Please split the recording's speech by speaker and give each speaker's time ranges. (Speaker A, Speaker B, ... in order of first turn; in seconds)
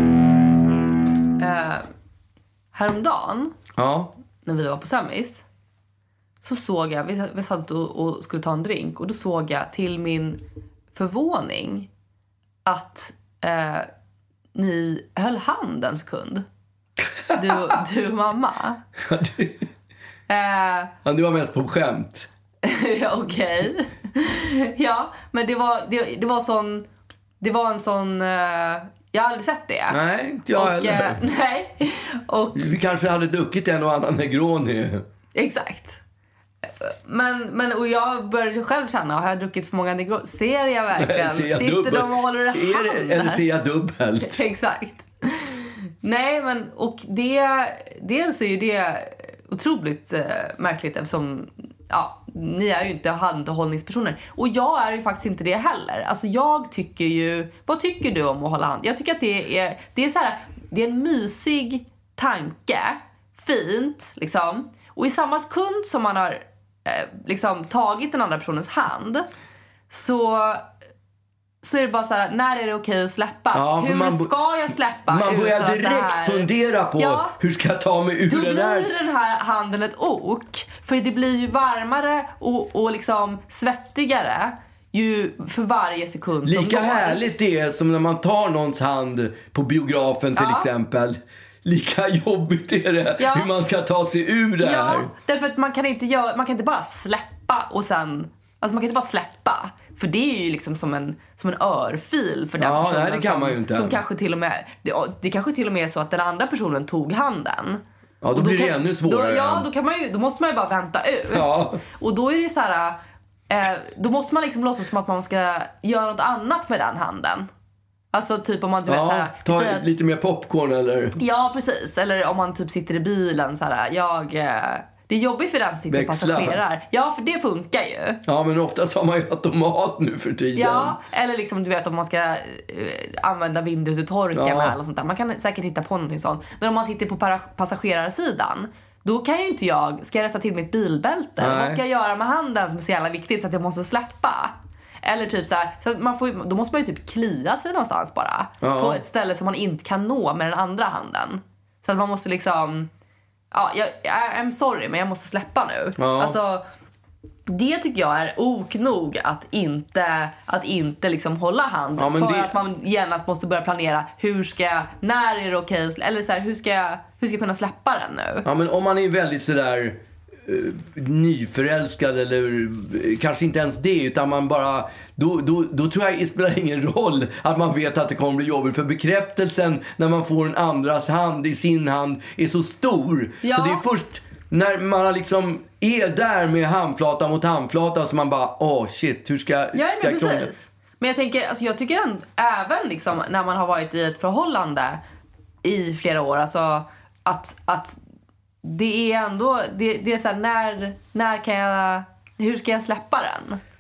Speaker A: 1.4-1.9, 2.7-3.5, 4.5-5.4, 6.4-10.4, 10.9-11.9, 12.7-13.9, 14.6-16.5, 17.3-18.8, 20.3-20.9, 22.6-26.9, 27.4-30.0, 30.5-32.6, 35.4-36.0, 36.8-43.4, 44.2-69.3, 69.9-70.7, 71.6-77.3, 78.3-87.2, 90.3-90.7, 93.2-93.5, 94.6-107.8, 108.3-113.0, 113.5-117.5, 118.1-119.9, 121.2-128.2, 130.6-152.9, 153.5-156.6, 157.5-168.4, 183.4-183.8, 189.7-195.0, 195.6-198.0, 198.6-203.6
Speaker B: 3.8-4.1, 17.2-17.7, 19.0-19.7, 21.1-22.3, 29.9-31.2, 32.5-35.0, 41.0-44.4, 73.5-74.3, 75.1-79.0, 86.5-95.1, 102.6-104.0, 108.2-109.7, 111.3-111.8, 118.9-121.2, 125.9-126.6, 128.2-131.0, 134.3-134.8, 141.4-141.8, 148.6-149.0, 156.0-156.4, 162.0-162.5, 168.4-190.5